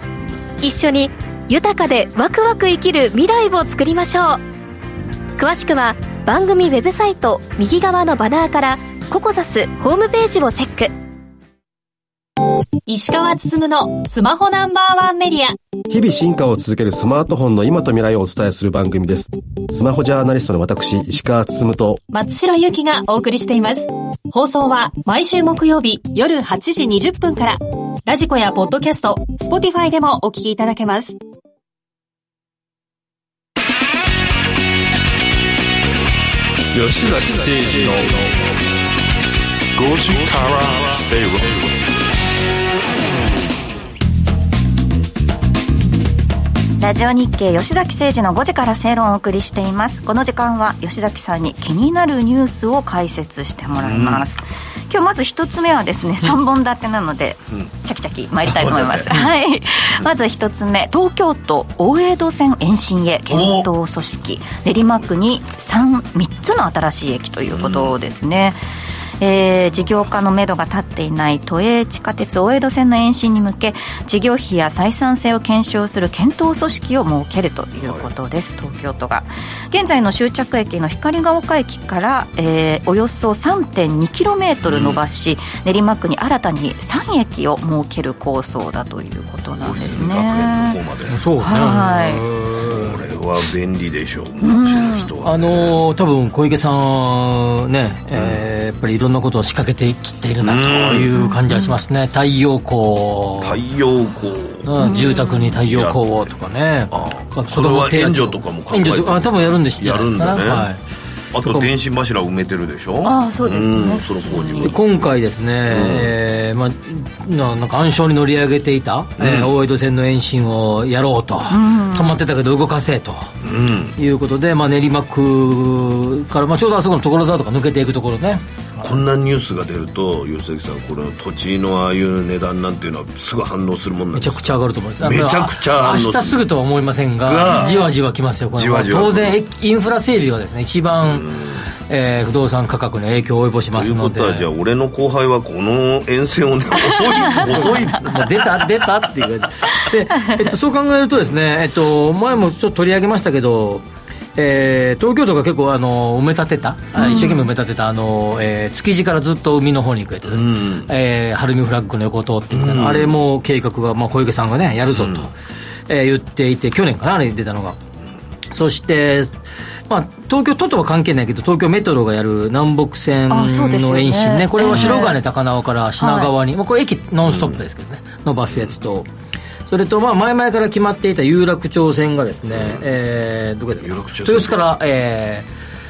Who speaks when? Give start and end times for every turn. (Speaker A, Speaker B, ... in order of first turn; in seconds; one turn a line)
Speaker A: 0.6-4.4
Speaker A: 5.4-10.9
Speaker B: 12.9-15.6
Speaker C: 15.9-22.0
Speaker B: 22.1-31.2
Speaker D: 36.7-38.3
Speaker D: 39.8-41.8
Speaker E: 46.8-68.6
Speaker F: 53.8-54.2
Speaker F: 58.4-59.2
Speaker F: 63.3-63.7
Speaker F: 67.5-68.0
Speaker E: 69.2-90.8
Speaker F: 77.8-78.1
Speaker F: 84.6-85.0
Speaker F: 89.6-91.2
Speaker G: 91.1-93.0
Speaker E: 91.4-92.2
Speaker F: 92.5-95.8
Speaker E: 94.4-95.1
Speaker G: 95.2-103.6
Speaker F: 98.1-98.4
Speaker F: 100.4-101.1
Speaker E: 101.1-101.8
Speaker F: 103.4-106.3
Speaker G: 104.6-110.8
Speaker E: 104.8-105.5
Speaker F: 106.9-110.7
Speaker F: 111.3-114.8
Speaker G: 111.4-111.7
Speaker E: 113.0-114.7
Speaker G: 114.6-123.3
Speaker F: 115.7-116.1
Speaker F: 119.2-119.5
Speaker E: 121.5-122.2
Speaker F: 123.4-124.0
Speaker G: 124.0-128.9
Speaker F: 128.8-136.4
Speaker G: 134.1-141.3
Speaker F: 137.2-137.9
Speaker E: 137.5-137.8
Speaker F: 138.5-139.4
Speaker F: 141.0-141.7
Speaker G: 141.9-144.5
Speaker F: 143.8-148.6
Speaker G: 147.3-153.8
Speaker G: 154.3-165.3
Speaker E: 157.0-157.4
Speaker F: 160.3-160.9
Speaker F: 162.5-163.2
Speaker F: 164.9-165.3
Speaker G: 165.9-167.8
Speaker G: 168.5-169.3
Speaker G: 169.9-179.1
Speaker E: 173.3-175.2
Speaker F: 174.7-175.0
Speaker E: 176.0-176.3
Speaker F: 177.2-177.6
Speaker G: 179.7-185.5
Speaker F: 182.5-182.8
Speaker F: 183.8-184.6